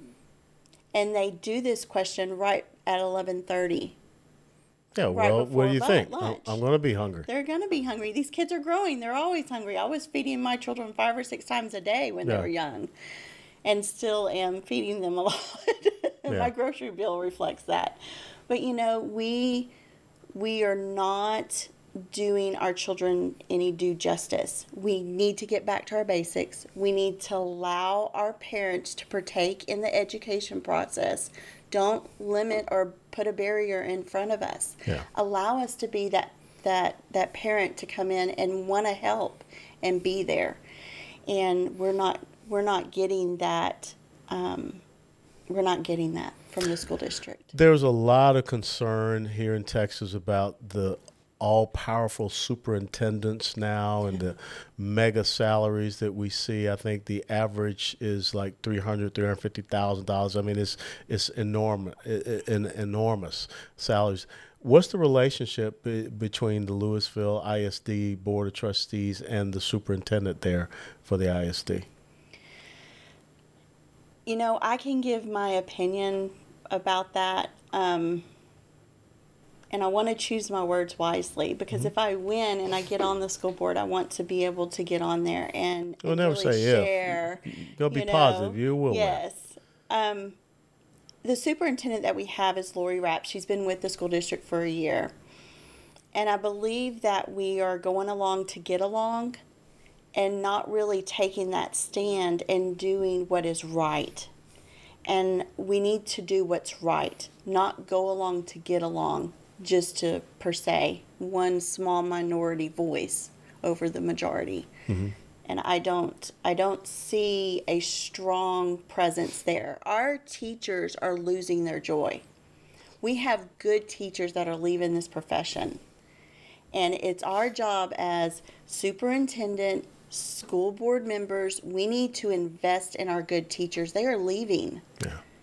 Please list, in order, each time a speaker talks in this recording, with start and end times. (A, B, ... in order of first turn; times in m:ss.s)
0:00.9-0:04.0 A
0:04.9-0:07.3 B
0:05.1-0:06.6 A
0:07.3-0:12.9 A
0:13.6-0:19.7 A
0:20.3-0:40.6 A
0:41.3-0:44.8 A
0:45.5-0:47.5 A
0:47.5-1:11.9 B
1:14.2-1:18.3 A
1:19.7-1:30.4 A
1:26.0-1:29.2 B
1:31.2-1:35.1 A
1:36.1-1:39.4 A
1:40.1-1:44.3 A
1:45.0-1:54.7 A
1:54.9-1:55.1 B
1:55.4-2:02.2 A
2:03.0-2:05.8 A
2:06.7-2:14.8 A